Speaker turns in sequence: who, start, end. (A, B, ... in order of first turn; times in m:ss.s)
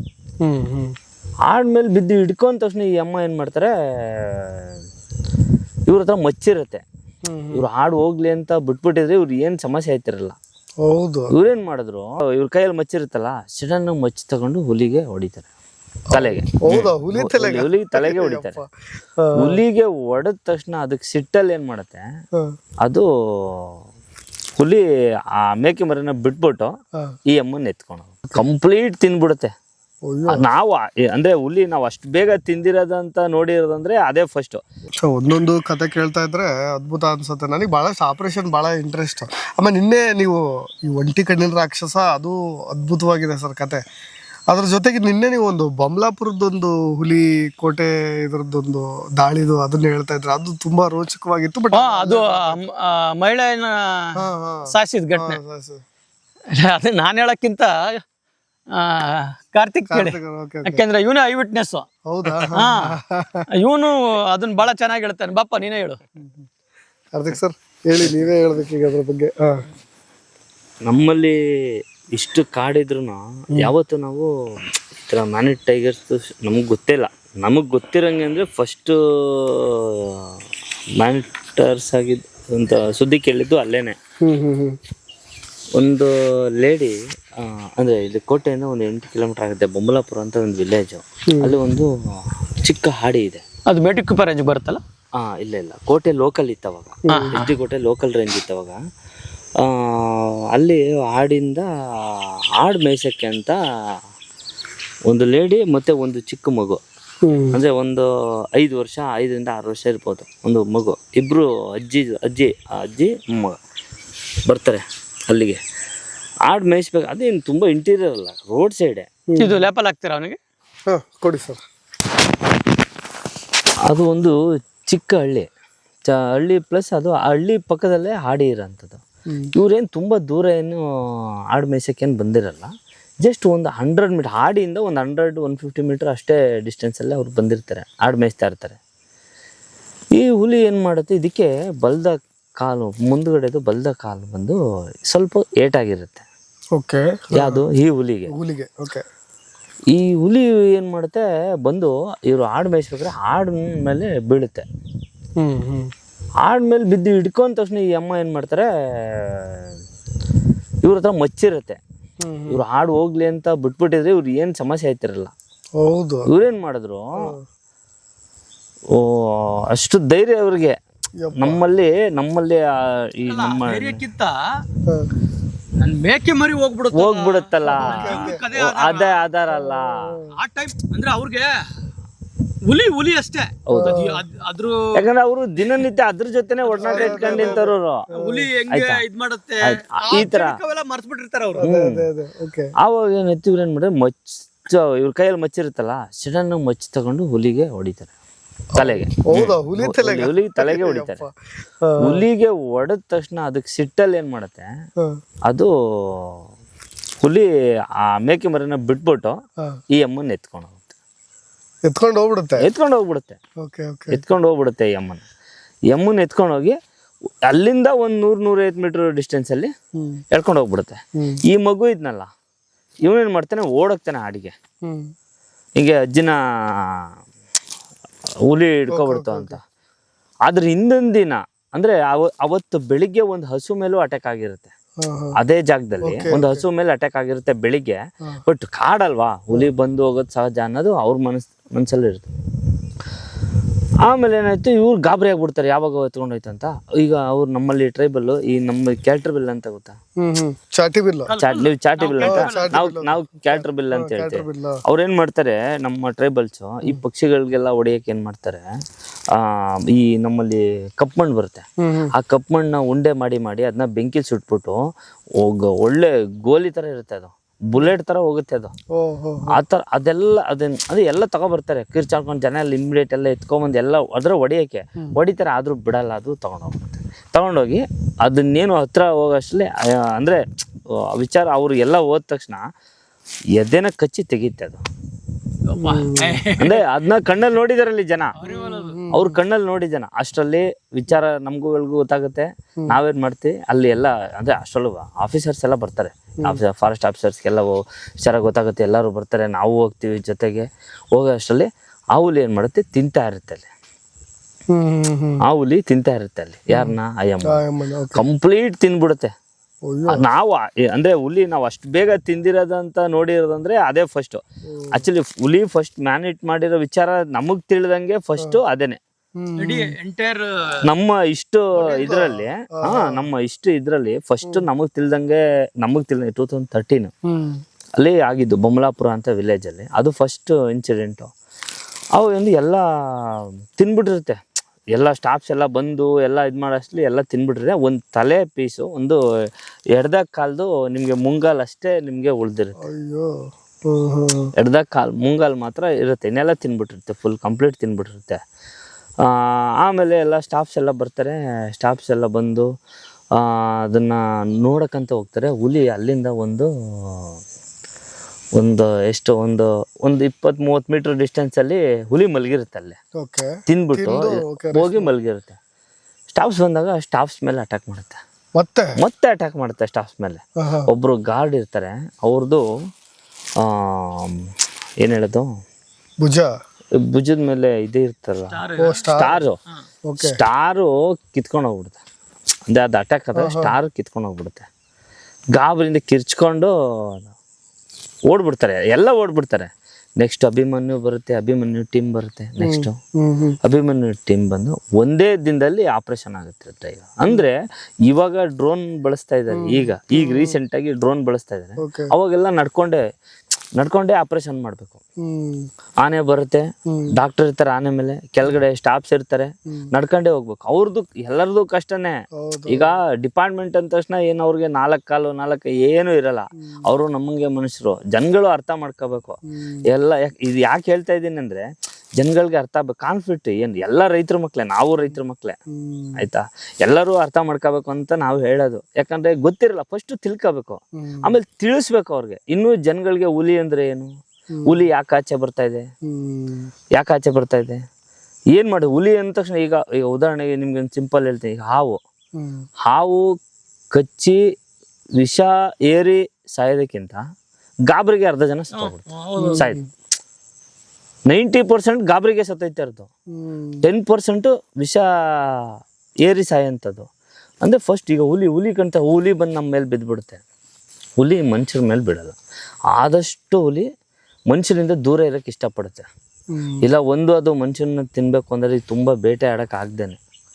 0:00.4-0:01.0 A
0:01.5-0:04.8 B
0:05.9-0:06.8 B
0:07.3-0:07.6 A
0:07.5-0:10.4 B
0:10.8-0:11.3 A
0:11.3-0:15.5 B
0:16.1-0:18.6 B
0:16.1-0:19.6 A
0:19.4-0:22.0 B
0:22.8-0:23.8 B
0:25.4-0:26.7 B
0:27.3-0:29.5 B
0:30.1-0:30.4 A
0:30.3-0:34.6 B
0:35.0-0:43.8 A
0:44.5-0:52.6 A
0:51.7-0:55.4 C
0:54.2-0:55.8 A
0:56.5-0:58.0 C
0:58.7-1:01.9 C
0:59.9-1:00.8 A
1:02.1-1:03.4 A
1:02.4-1:03.0 C
1:03.6-1:06.0 C
1:07.1-1:09.7 A
1:10.9-1:14.3 B
1:15.1-1:20.4 B
1:21.0-1:24.0 B
1:24.2-1:24.8 A
1:25.8-1:31.9 B
1:31.3-1:31.6 A
1:32.6-1:33.4 B
1:33.7-1:34.8 C
1:35.2-1:38.8 B
1:37.1-1:37.4 A
1:37.1-1:37.6 C
1:39.6-1:44.0 B
1:45.1-1:46.8 B
1:47.2-1:47.6 A
1:47.5-1:53.6 B
1:54.5-1:55.6 B
1:56.5-1:59.1 B
1:59.3-1:59.6 A
1:59.4-2:00.4 C
2:00.9-2:01.6 A
2:03.9-2:04.4 B
2:04.9-2:05.5 B
2:06.1-2:09.0 B
2:09.5-2:18.8 B
2:20.2-2:26.3 B
2:26.8-2:27.6 A
2:27.4-2:28.3 B
2:28.3-2:29.0 A
2:29.9-2:34.7 B
2:35.4-2:35.9 A
2:36.4-2:39.8 B
2:40.8-2:41.8 B
2:42.2-2:42.6 A
2:42.5-2:45.3 B
2:45.8-2:46.3 A
2:46.3-2:47.3 B
2:48.9-2:50.8 B
2:51.2-2:51.6 A
2:51.4-2:54.0 B
2:53.3-2:54.4 C
2:55.8-2:59.3 C
2:56.9-3:00.0 B
2:57.6-2:58.4 A
2:59.5-3:00.4 A
3:00.3-3:01.6 C
3:02.6-3:05.1 C
3:03.7-3:04.0 B
3:03.8-3:04.2 A
3:04.9-3:08.0 B
3:06.6-3:11.6 C
3:06.8-3:08.5 A
3:08.7-3:09.0 B
3:09.6-3:10.6 B
3:11.6-3:12.7 A
3:11.6-3:12.1 B
3:12.8-3:18.1 B
3:18.7-3:22.3 A
3:18.8-3:21.2 B
3:22.0-3:24.7 B
3:25.5-3:26.5 B
3:27.2-3:27.5 B
3:28.0-3:29.4 B
3:29.9-3:31.0 B
3:31.9-3:32.7 A
3:32.6-3:33.4 B
3:33.6-3:34.2 A
3:34.1-3:35.2 B
3:35.9-3:36.8 B
3:37.5-3:39.7 B
3:40.0-3:40.2 A
3:40.3-3:42.3 B
3:43.0-3:44.5 B
3:44.8-3:45.1 A
3:45.8-3:47.1 B
3:48.5-3:49.6 B
3:48.9-3:49.6 A
3:50.5-3:54.7 B
3:55.0-3:55.4 A
3:55.4-4:02.3 B
3:56.0-3:56.6 A
4:04.0-4:10.0 B
4:10.2-4:11.3 A
4:11.3-4:12.8 C
4:11.4-4:18.7 B
4:12.2-4:14.8 A
4:19.3-4:24.9 B
4:21.8-4:22.1 A
4:25.4-4:28.7 B
4:28.9-4:29.6 A
4:29.5-4:40.4 B
4:41.0-4:42.6 B
4:43.6-4:44.8 B
4:45.7-4:46.9 C
4:45.8-4:46.4 A
4:46.6-4:48.4 B
4:48.4-4:49.0 C
4:48.4-4:49.4 A
4:49.1-5:03.7 B
5:04.7-5:05.4 A
5:05.4-5:07.6 B
5:06.7-5:08.2 A
5:08.1-5:09.3 B
5:09.9-5:10.3 A
5:10.1-5:19.0 B
5:14.7-5:15.0 A
5:19.4-5:19.9 A
5:19.6-5:20.8 C
5:20.8-5:27.1 B
5:21.8-5:23.3 A
5:27.3-5:27.6 A
5:28.0-5:31.3 B
5:32.2-5:34.4 B
5:34.9-5:39.2 B
5:39.9-5:42.8 B
5:42.8-5:44.5 A
5:44.6-5:48.4 B
5:49.2-5:52.7 B
5:53.3-5:57.4 B
5:58.6-6:03.0 B
6:03.2-6:05.1 A
6:03.7-6:05.6 B
6:06.3-6:08.2 B
6:08.6-6:08.9 A
6:09.0-6:12.6 B
6:10.6-6:10.9 A
6:13.6-6:14.5 B
6:15.0-6:15.5 B
6:16.2-6:16.5 A
6:17.0-6:19.6 B
6:18.5-6:19.0 C
6:18.8-6:19.4 A
6:20.1-6:20.4 A
6:20.2-6:22.0 B
6:22.7-6:24.7 B
6:23.4-6:23.8 A
6:25.5-6:27.2 B
6:28.3-6:33.0 B
6:32.6-6:33.6 A
6:33.6-6:43.0 B
6:39.5-6:40.6 A
6:41.8-6:42.1 A
6:43.8-6:45.0 B
6:45.2-6:45.7 A
6:46.0-7:01.7 B
6:52.4-6:52.9 A
6:59.5-6:59.8 A
7:02.2-7:05.6 B
7:05.7-7:06.2 A
7:06.2-7:14.1 B
7:11.0-7:11.3 A
7:14.5-7:14.8 A
7:14.7-7:15.9 B
7:16.0-7:16.7 A
7:17.0-7:17.8 B
7:18.5-7:22.0 B
7:22.4-7:22.6 A
7:22.8-7:23.3 B
7:23.9-7:24.4 B
7:25.2-7:27.2 B
7:27.9-7:29.1 B
7:28.7-7:29.7 C
7:29.4-7:29.8 A
7:31.3-7:33.1 B
7:33.4-7:33.8 A
7:33.8-7:37.1 B
7:37.6-7:40.4 B
7:41.2-7:42.4 B
7:43.0-7:43.9 B
7:44.5-7:46.1 B
7:46.5-7:46.8 A
7:46.8-7:50.2 B